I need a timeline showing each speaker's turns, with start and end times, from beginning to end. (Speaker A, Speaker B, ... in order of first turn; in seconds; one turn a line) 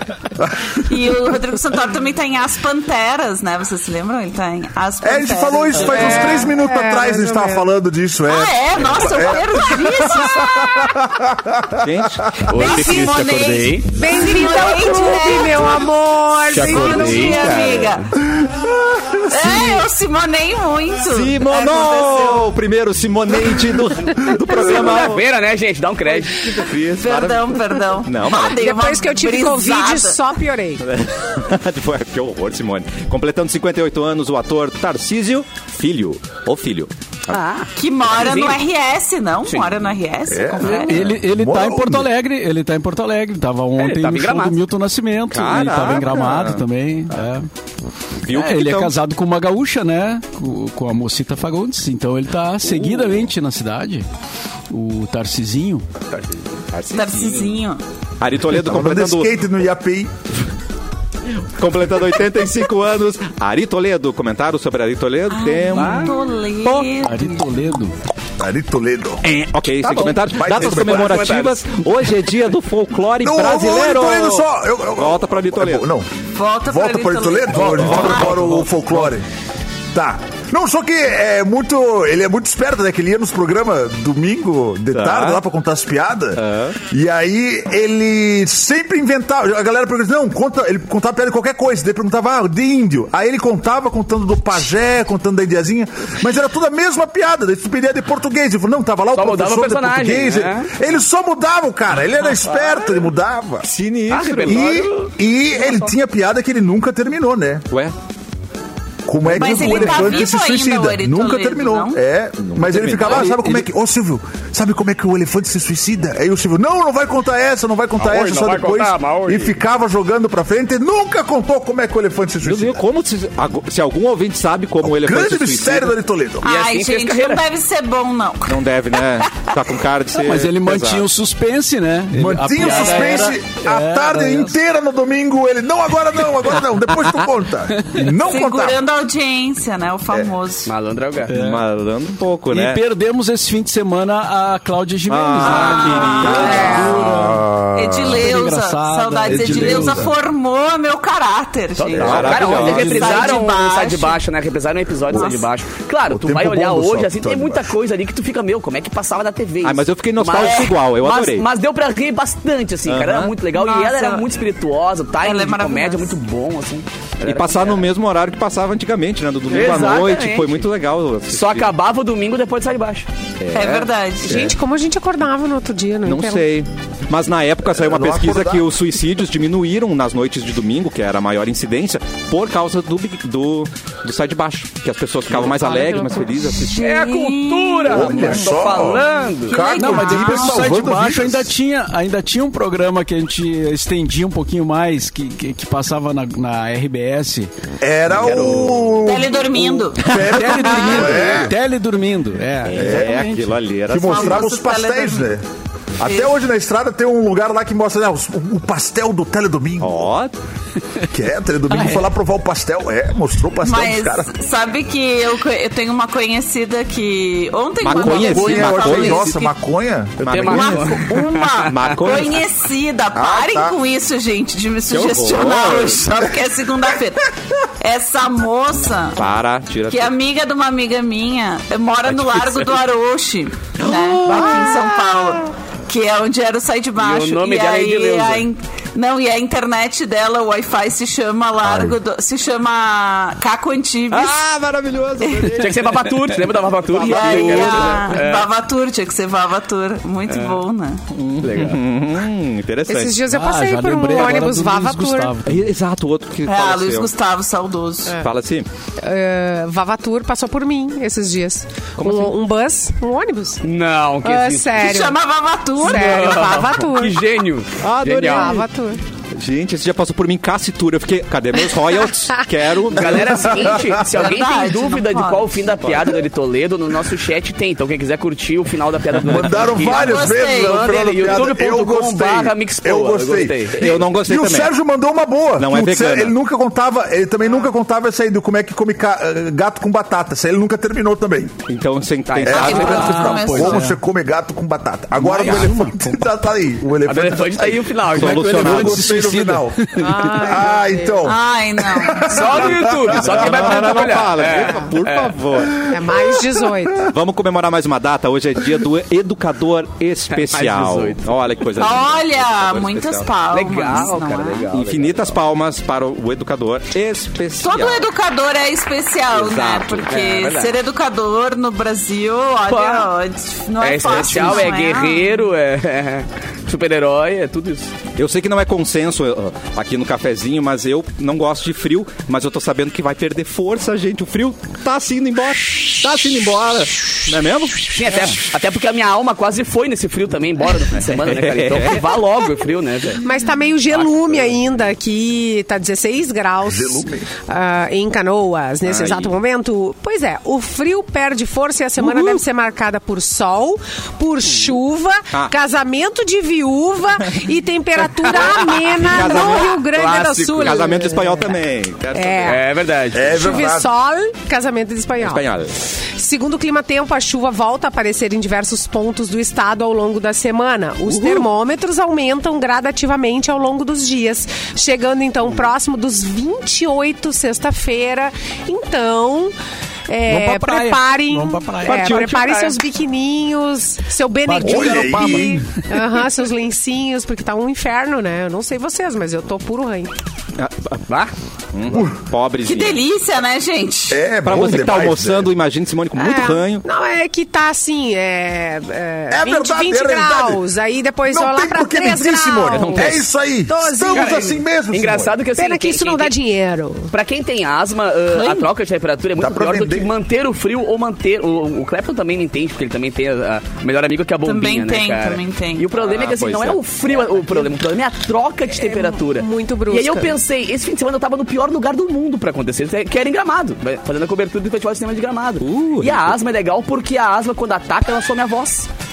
Speaker A: 0.4-0.8
Speaker B: 0.8-6.5
Speaker A: 5.0-11.8
Speaker C: 5.9-7.7
Speaker B: 8.3-10.7
Speaker D: 11.8-12.5
Speaker E: 12.4-13.9
Speaker B: 12.5-15.9
Speaker C: 13.9-17.4
Speaker B: 16.4-18.1
Speaker E: 16.5-18.1
Speaker A: 18.4-19.5
Speaker B: 19.3-22.5
Speaker D: 21.0-25.3
Speaker E: 24.5-26.7
Speaker D: 26.4-28.6
Speaker B: 27.0-30.2
Speaker C: 28.6-30.8
Speaker D: 30.8-37.4
Speaker E: 37.3-38.6
Speaker B: 37.7-41.1
Speaker E: 39.5-39.7
Speaker A: 40.3-40.7
Speaker E: 40.6-40.9
Speaker F: 40.7-47.5
Speaker A: 41.3-42.1
Speaker E: 43.8-44.6
Speaker D: 45.3-46.6
Speaker D: 48.2-48.9
Speaker F: 48.3-54.0
Speaker D: 52.6-53.3
Speaker F: 54.7-55.9
Speaker D: 56.7-57.6
Speaker B: 56.9-57.8
Speaker D: 58.2-59.3
Speaker A: 58.5-60.1
Speaker D: 61.6-66.1
Speaker B: 65.3-67.7
Speaker E: 65.7-66.1
Speaker F: 65.7-68.0
Speaker A: 68.4-69.2
Speaker D: 69.2-75.9
Speaker E: 69.8-71.9
Speaker A: 70.2-71.3
Speaker A: 73.2-76.1
Speaker B: 76.3-78.4
Speaker A: 76.7-79.2
Speaker D: 77.7-79.1
Speaker A: 79.9-103.7
Speaker D: 84.9-85.4
Speaker D: 86.3-86.8
Speaker E: 99.1-100.8
Speaker E: 102.3-103.0
Speaker D: 103.6-104.8
Speaker E: 104.1-105.1
Speaker A: 104.5-107.6
Speaker A: 109.0-122.8
Speaker B: 109.3-112.0
Speaker D: 109.4-110.1
Speaker D: 112.4-113.7
Speaker E: 118.0-119.5
Speaker D: 122.4-125.9
Speaker A: 124.8-126.4
Speaker B: 126.4-129.6
Speaker E: 126.4-127.4
Speaker D: 128.4-131.1
Speaker F: 130.1-134.6
Speaker A: 132.1-138.8
Speaker B: 138.2-140.7
Speaker E: 140.7-141.3
Speaker F: 141.3-141.6
Speaker D: 141.3-142.8
Speaker F: 142.5-147.5
Speaker D: 145.1-146.9
Speaker B: 145.4-147.1
Speaker C: 146.3-147.0
Speaker A: 146.9-148.3
Speaker B: 147.7-154.2
Speaker F: 148.0-150.1
Speaker A: 149.3-150.0
Speaker E: 151.8-167.9
Speaker D: 151.9-153.3
Speaker F: 152.1-153.3
Speaker A: 155.1-155.3
Speaker B: 155.1-155.5
Speaker A: 156.1-157.7
Speaker D: 159.6-161.4
Speaker B: 160.3-160.7
Speaker D: 162.9-163.3
Speaker B: 163.5-164.2
Speaker B: 165.2-166.2
Speaker D: 167.2-171.7
Speaker E: 169.5-170.7
Speaker E: 171.3-173.1
Speaker D: 173.4-174.4
Speaker B: 173.5-174.5
Speaker C: 174.2-176.5
Speaker D: 176.0-186.8
Speaker A: 177.7-178.6
Speaker C: 185.4-186.6
Speaker B: 186.7-188.1
Speaker E: 186.7-189.7
Speaker A: 187.9-191.5
Speaker D: 188.1-188.4
Speaker B: 189.5-190.7
Speaker F: 189.8-197.5
Speaker A: 197.8-201.5
Speaker E: 198.1-198.9
Speaker B: 199.0-200.0
Speaker F: 200.0-203.5
Speaker D: 200.1-201.4
Speaker D: 202.6-204.6
Speaker A: 202.8-203.2
Speaker A: 203.9-205.4
Speaker B: 203.9-205.3
Speaker A: 206.0-210.1
Speaker B: 206.0-206.4
Speaker D: 209.8-210.3
Speaker A: 211.1-214.3
Speaker F: 211.7-212.1
Speaker B: 213.6-219.5
Speaker D: 217.8-219.3
Speaker A: 218.0-220.5
Speaker E: 218.0-218.8
Speaker D: 220.2-221.1
Speaker E: 220.2-222.2
Speaker B: 220.4-229.2
Speaker D: 221.7-222.4
Speaker A: 223.1-223.7
Speaker D: 224.9-226.1
Speaker D: 229.2-230.1
Speaker B: 229.9-244.5
Speaker D: 233.8-235.0
Speaker E: 237.0-238.5
Speaker D: 241.6-241.9
Speaker D: 244.1-246.1
Speaker B: 245.2-245.6
Speaker E: 245.6-248.5
Speaker D: 246.9-248.2
Speaker B: 247.0-251.0
Speaker E: 250.3-250.6
Speaker D: 251.1-253.2
Speaker E: 251.4-251.8
Speaker C: 252.9-255.3
Speaker F: 253.3-255.6
Speaker D: 255.4-257.1
Speaker B: 256.4-258.2
Speaker D: 258.2-258.7
Speaker C: 259.0-263.6
Speaker D: 262.0-262.4
Speaker E: 263.6-264.9
Speaker C: 264.2-265.2
Speaker B: 264.8-266.6
Speaker C: 265.8-267.2
Speaker E: 265.8-268.6
Speaker D: 267.8-268.7
Speaker C: 268.2-269.0
Speaker D: 269.4-273.7
Speaker E: 272.9-283.9
Speaker A: 273.0-274.1
Speaker B: 273.5-275.6
Speaker D: 275.8-276.2
Speaker A: 279.2-291.6
Speaker B: 279.8-281.0
Speaker D: 283.7-284.7
Speaker D: 285.6-286.3
Speaker D: 291.7-293.3
Speaker E: 292.3-292.9
Speaker A: 292.4-303.5
Speaker B: 292.5-293.9
Speaker F: 292.8-294.0
Speaker F: 295.2-296.2
Speaker D: 295.4-295.7
Speaker E: 297.0-299.0
Speaker D: 298.1-299.1
Speaker F: 298.5-300.3
Speaker C: 300.0-301.3
Speaker B: 301.2-302.7
Speaker E: 302.3-305.3
Speaker D: 302.7-305.9
Speaker C: 304.5-304.9
Speaker C: 305.9-307.1
Speaker A: 306.1-306.8
Speaker D: 307.0-313.3
Speaker E: 310.3-311.4
Speaker B: 311.8-314.7
Speaker E: 313.5-315.4
Speaker D: 314.7-318.1
Speaker B: 317.6-325.5
Speaker D: 319.3-320.1
Speaker E: 320.1-320.7
Speaker E: 322.7-323.1
Speaker E: 323.8-327.9
Speaker D: 324.3-324.7
Speaker D: 328.2-338.5
Speaker E: 336.2-337.0
Speaker E: 337.9-343.2
Speaker D: 341.0-342.0
Speaker C: 343.2-361.6
Speaker E: 344.0-344.4
Speaker A: 346.6-347.3
Speaker D: 348.8-349.4
Speaker D: 352.0-352.4
Speaker E: 358.2-360.9
Speaker D: 359.0-359.8
Speaker D: 360.6-362.6
Speaker C: 362.1-362.6
Speaker E: 362.4-363.6
Speaker A: 363.1-363.9
Speaker C: 363.2-365.5
Speaker D: 365.2-365.7
Speaker C: 366.1-379.5
Speaker D: 371.1-371.5
Speaker C: 380.1-390.1
Speaker F: 380.3-382.3
Speaker D: 381.9-382.6
Speaker E: 382.2-382.7
Speaker A: 384.5-385.6
Speaker F: 384.6-385.6
Speaker D: 390.6-391.1
Speaker D: 391.7-393.0
Speaker A: 391.9-392.2
Speaker B: 392.6-394.3
Speaker A: 394.1-395.5
Speaker D: 394.4-396.8
Speaker C: 396.1-404.6
Speaker A: 399.3-400.6
Speaker A: 401.3-405.4
Speaker D: 402.7-403.2
Speaker E: 404.1-406.4
Speaker C: 405.6-407.1
Speaker E: 407.1-428.9
Speaker B: 408.3-408.7
Speaker A: 409.4-410.1
Speaker B: 414.4-415.9
Speaker D: 416.0-416.8
Speaker C: 418.7-420.3
Speaker D: 425.6-426.4